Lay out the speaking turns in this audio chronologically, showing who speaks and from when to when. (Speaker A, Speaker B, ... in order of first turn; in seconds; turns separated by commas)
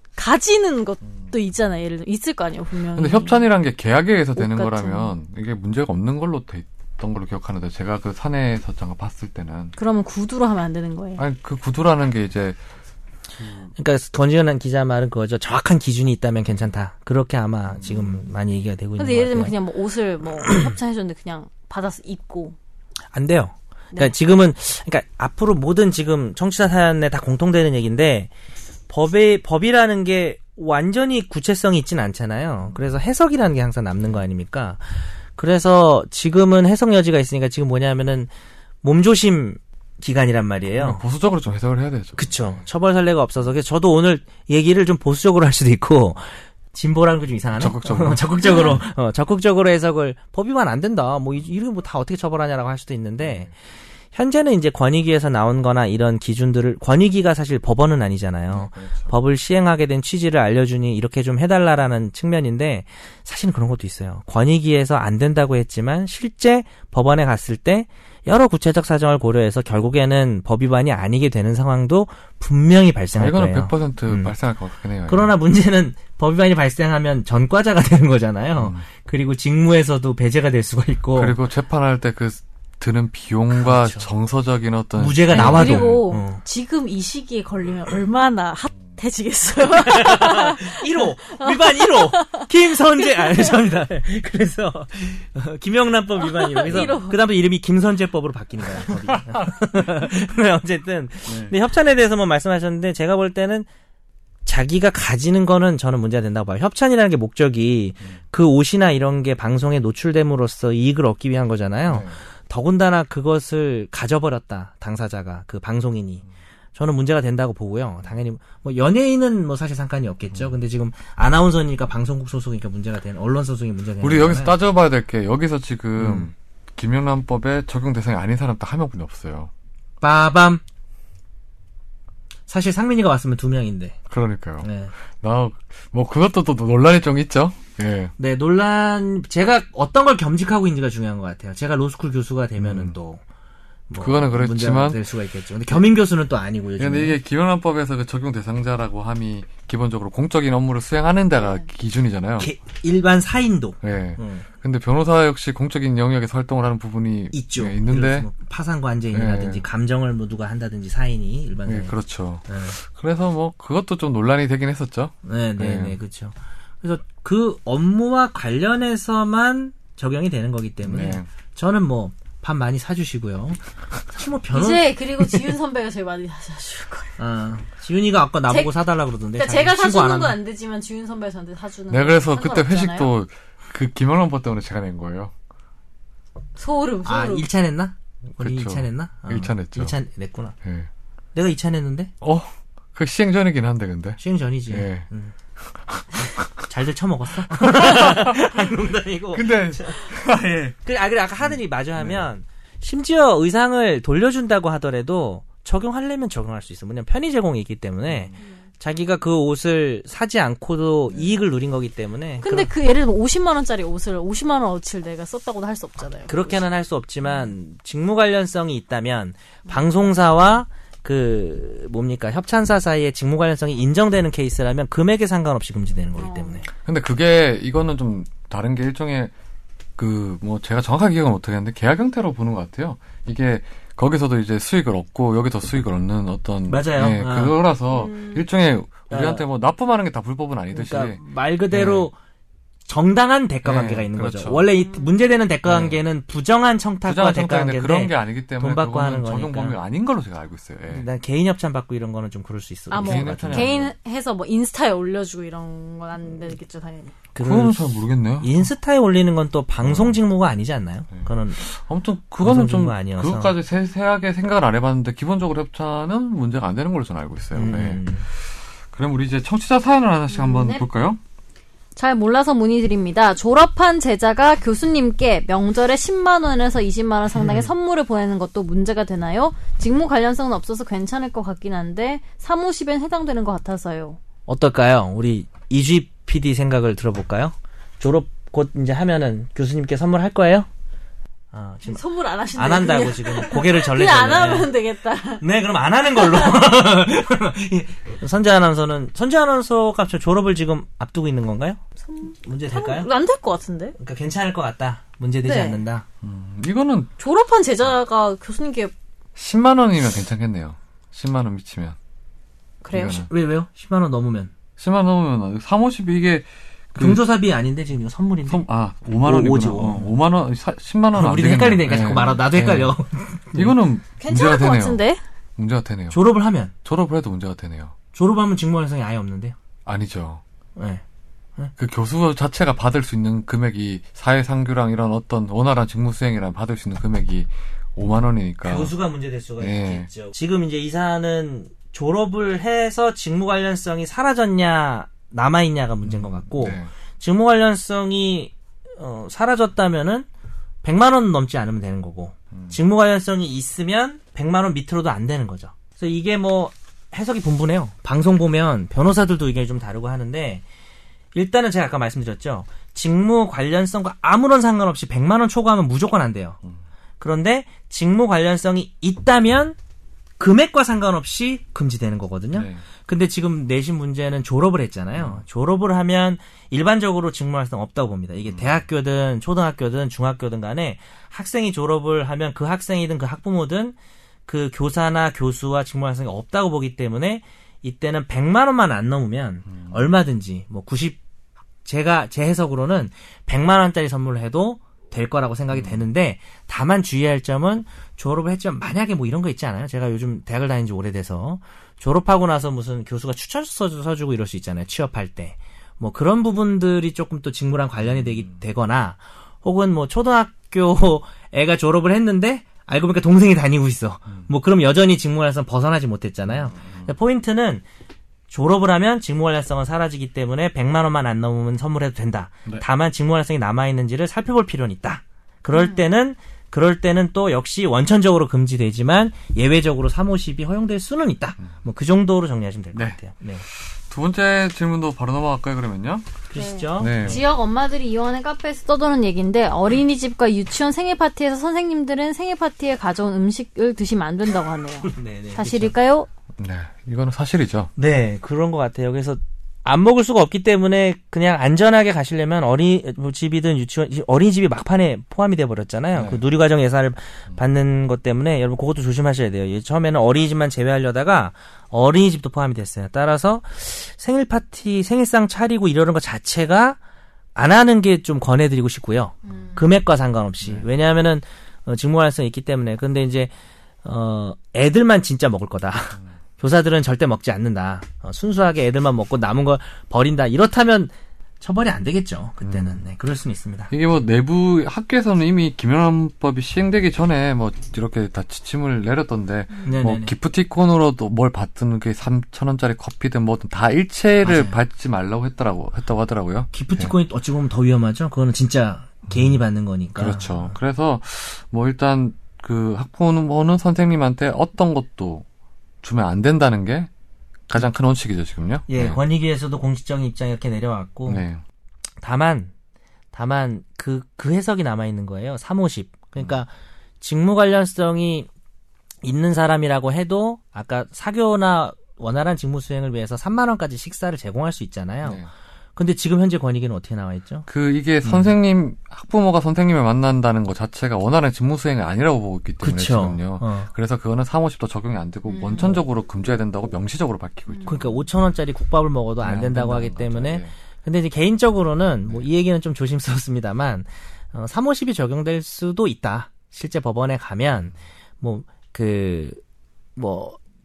Speaker A: 0.1-3.4, Speaker B: 2.9-9.7, Speaker A: 4.4-5.1, Speaker A: 9.8-11.2, Speaker B: 11.2-12.6, Speaker B: 13.4-13.7, Speaker C: 13.8-19.6, Speaker A: 19.0-22.6, Speaker C: 23.1-28.3, Speaker C: 28.9-34.8, Speaker C: 35.4-38.3, Speaker C: 38.8-41.0, Speaker B: 40.8-42.6, Speaker C: 42.1-53.5, Speaker B: 47.6-48.8, Speaker A: 48.5-48.7, Speaker B: 53.2-53.5, Speaker C: 54.1-74.3, Speaker B: 58.5-59.1, Speaker B: 73.2-75.3, Speaker C: 75.1-81.4, Speaker B: 78.6-78.8, Speaker B: 81.2-86.0, Speaker C: 83.5-84.1, Speaker C: 85.0-86.4, Speaker A: 85.3-93.5, Speaker C: 89.6-103.7, Speaker A: 96.2-97.2, Speaker B: 99.1-99.5, Speaker B: 101.3-101.5, Speaker C: 104.5-116.2, Speaker B: 111.9-112.2, Speaker C: 116.7-124.6, Speaker B: 124.0-129.5, Speaker C: 126.0-126.3, Speaker C: 130.0-130.6, Speaker C: 132.5-134.0, Speaker B: 134.1-138.1, Speaker C: 134.6-134.9, Speaker C: 138.2-143.2, Speaker B: 142.6-142.9, Speaker C: 143.9-147.2, Speaker B: 144.0-145.0, Speaker B: 146.8-152.5, Speaker C: 152.4-154.5, Speaker B: 153.8-158.3, Speaker C: 157.3-161.9, Speaker B: 159.1-159.6, Speaker B: 161.7-166.0, Speaker C: 162.5-162.8, Speaker C: 165.3-175.5, Speaker B: 170.8-171.3, Speaker A: 174.5-177.2, Speaker C: 177.2-180.4, Speaker A: 178.5-178.7, Speaker A: 179.3-183.1, Speaker B: 181.9-185.3, Speaker A: 186.6-187.4, Speaker C: 187.1-190.6, Speaker B: 188.4-189.9, Speaker B: 190.6-190.9, Speaker C: 191.3-192.1, Speaker B: 192.2-195.1, Speaker C: 194.2-195.3, Speaker B: 195.8-196.5, Speaker C: 196.2-200.0, Speaker B: 197.5-198.5, Speaker B: 199.3-200.8, Speaker C: 200.9-212.7, Speaker B: 201.4-202.3, Speaker B: 208.1-208.4, Speaker A: 212.4-216.6, Speaker C: 216.3-226.7, Speaker A: 226.2-226.6, Speaker B: 226.8-229.3, Speaker B: 230.0-241.2, Speaker C: 236.7-237.6, Speaker A: 237.9-238.4, Speaker C: 239.1-239.4, Speaker C: 240.7-242.2, Speaker B: 241.7-242.1, Speaker C: 242.9-249.8, Speaker B: 243.6-244.7, Speaker A: 244.8-245.1, Speaker B: 245.6-246.0, Speaker B: 247.1-251.1, Speaker C: 250.9-253.8, Speaker A: 252.9-257.1, Speaker B: 253.0-253.9, Speaker C: 257.3-261.7, Speaker B: 257.4-258.6, Speaker B: 259.8-260.2, Speaker B: 261.1-268.0, Speaker C: 262.4-263.5, Speaker C: 267.6-268.2, Speaker B: 268.9-271.2, Speaker A: 270.3-270.8, Speaker A: 271.9-284.2, Speaker C: 277.3-277.7, Speaker C: 284.5-290.7, Speaker C: 291.5-292.0, Speaker A: 291.9-295.4, Speaker C: 292.5-294.7, Speaker C: 295.4-301.8, Speaker A: 296.1-296.6, Speaker A: 302.1-303.9, Speaker C: 302.4-303.1, Speaker C: 304.0-306.1, Speaker A: 305.4-305.8, Speaker B: 306.2-307.1, Speaker A: 307.2-308.9, Speaker B: 309.4-312.0, Speaker A: 312.8-313.3, Speaker B: 312.9-313.3, Speaker C: 313.0-314.5, Speaker B: 314.8-317.2, Speaker C: 316.9-318.6, Speaker B: 318.5-322.9, Speaker C: 319.2-320.1, Speaker C: 321.1-323.8, Speaker B: 323.6-325.0, Speaker A: 324.2-325.2, Speaker B: 325.6-326.2, Speaker C: 326.1-326.7, Speaker B: 326.8-327.9, Speaker C: 328.1-329.6, Speaker B: 329.9-330.4, Speaker C: 330.8-331.0, Speaker B: 331.8-338.9, Speaker C: 338.6-350.3, Speaker B: 339.6-340.1, Speaker B: 346.1-346.9, Speaker C: 350.8-360.6, Speaker C: 361.3-366.6, Speaker C: 367.2-369.8, Speaker C: 370.4-383.9, Speaker B: 372.5-372.8, Speaker B: 375.1-375.4, Speaker B: 378.5-378.8, Speaker C: 384.5-391.2, Speaker C: 391.8-417.8, Speaker B: 395.7-396.0, Speaker B: 416.8-417.1, Speaker C: 418.5-433.6, Speaker A: 425.7-426.0, Speaker B: 433.7-436.4, Speaker C: 436.5-437.4, Speaker A: 436.6-446.3, Speaker B: 437.0-437.4, Speaker C: 445.1-445.9, Speaker B: 446.6-447.9, Speaker C: 447.9-467.0, Speaker B: 456.1-456.4, Speaker C: 467.6-473.5, Speaker A: 469.5-469.8, Speaker C: 474.0-483.9, Speaker B: 482.6-483.0, Speaker B: 483.9-497.1, Speaker C: 489.9-490.3, Speaker C: 494.4-494.8, Speaker C: 496.7-500.7, Speaker B: 500.2-505.4, Speaker B: 506.0-507.1, Speaker B: 507.7-509.2, Speaker C: 508.9-511.4, Speaker B: 511.3-511.6, Speaker C: 512.2-512.7, Speaker C: 513.3-516.7, Speaker C: 517.2-518.5, Speaker C: 519.2-525.4, Speaker B: 525.2-525.5, Speaker C: 526.0-527.7, Speaker B: 527.7-538.1, Speaker C: 528.2-528.5, Speaker C: 532.8-533.9, Speaker A: 535.5-535.8, Speaker C: 537.9-549.6, Speaker B: 539.4-540.7, Speaker C: 550.1-550.6